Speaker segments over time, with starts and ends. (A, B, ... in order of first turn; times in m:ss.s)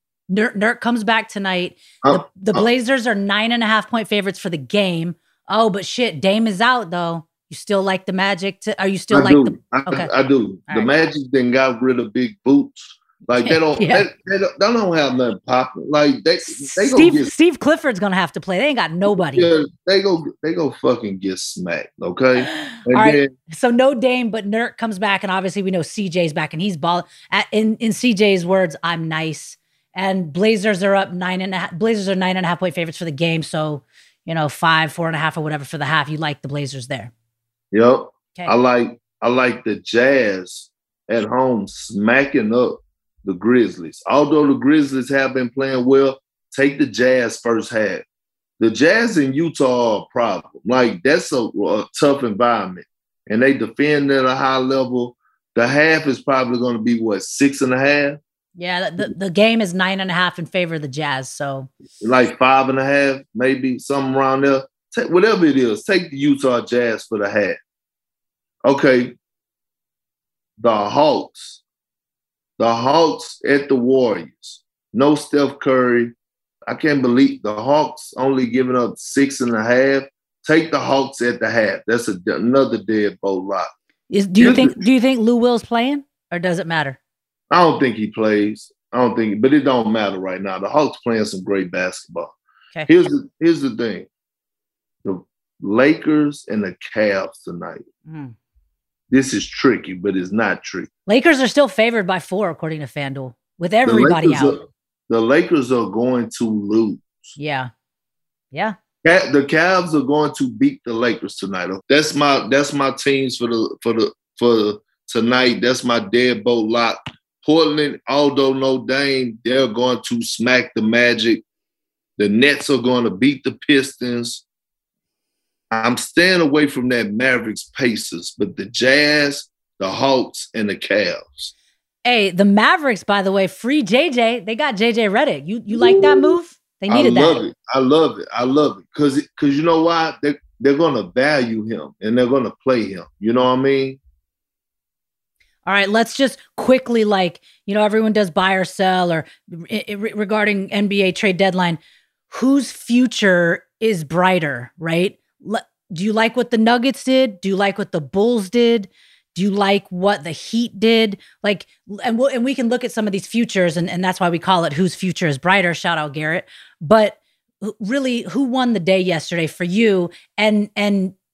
0:00.3-0:10.1 A
0:02.0-0:02.6 B
0:09.1-0:17.3 B
0:13.4-0:14.1 A
0:16.5-0:19.5 A
0:19.1-0:23.3 B
0:22.4-0:37.1 A
0:37.7-0:48.0 B
0:48.6-0:58.2 B
0:58.6-1:01.7 A
1:02.0-1:07.6 B
1:08.6-1:09.2 B
1:10.6-1:11.6 B
1:12.6-1:16.1 B
1:16.7-1:23.7 B
1:24.1-1:27.0 A
1:24.4-1:24.8 B
1:27.5-1:32.3 B
1:32.9-1:34.1 B
1:35.0-1:37.8 B
1:38.1-1:38.3 A
1:39.1-1:40.9 B
1:41.1-1:44.6 A
1:43.8-1:47.2 B
1:47.4-1:47.7 A
1:49.0-2:01.4 B
2:02.2-2:04.4 B
2:05.7-2:11.5 B
2:12.0-2:17.4 A
2:15.7-2:16.4 B
2:16.9-2:24.0 B
2:25.7-2:31.8 A
2:32.3-2:51.1 A